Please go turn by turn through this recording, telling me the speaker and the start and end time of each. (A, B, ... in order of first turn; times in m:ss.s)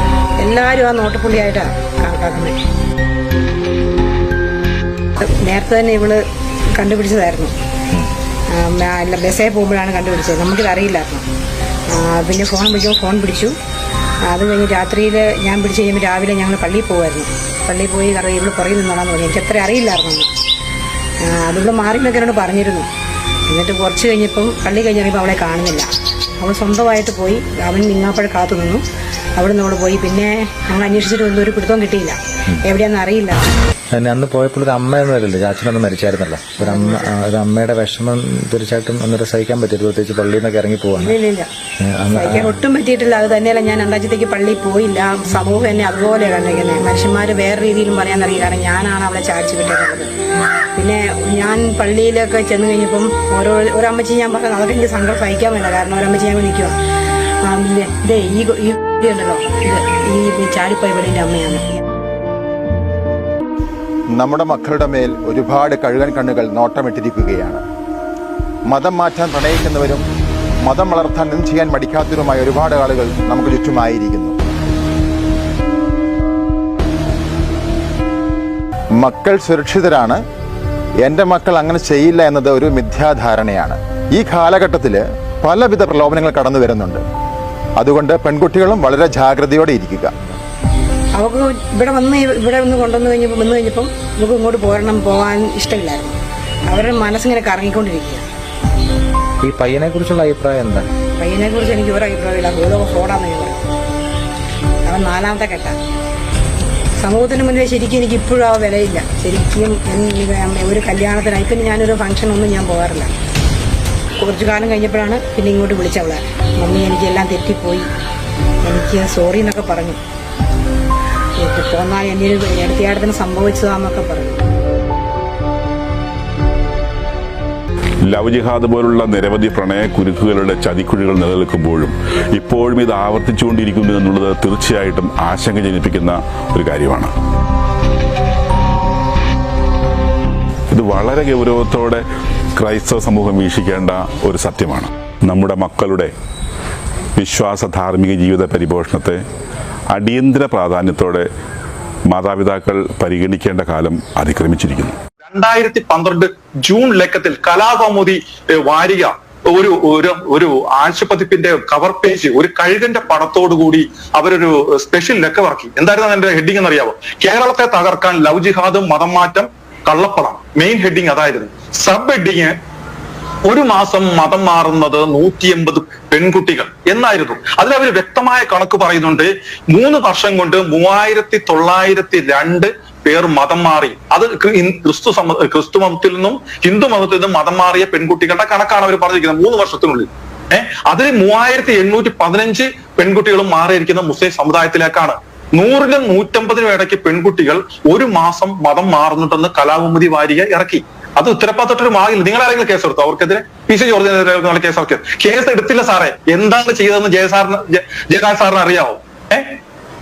0:00.4-0:02.6 A
0:05.2-0:06.2 A
0:06.7-0:07.6 A
0:08.5-0:11.3 A
0:11.9-0:13.6 A
0:14.3-0:20.3 A
0:21.2-0:22.9 A
0:23.5-0:28.8 A
0:29.4-0:33.4 A
0:33.9-0:41.2 B
0:36.6-0:37.1 A
0:41.0-0:41.5 A
0:41.8-0:42.6 B
0:42.2-0:50.1 A
0:50.7-0:56.8 A
0:57.4-1:01.8 A
1:04.1-1:07.6 C
1:08.7-1:10.0 C
1:10.6-1:14.4 C
1:19.0-1:20.2 C
1:21.0-1:27.0 C
1:27.8-1:30.1 C
1:31.2-1:38.3 A
1:39.4-1:40.9 B
1:41.2-1:43.6 A
1:44.8-1:45.8 A
1:47.0-1:53.1 A
1:54.2-1:57.9 A
1:58.6-2:00.0 A
2:01.4-2:04.4 A
2:08.1-2:17.1 D
2:20.7-2:22.0 D
2:22.6-2:26.1 D
2:27.2-2:29.2 D
2:29.9-2:31.3 D
2:32.1-2:35.0 D
2:35.2-2:52.5 E
2:53.5-3:29.6 E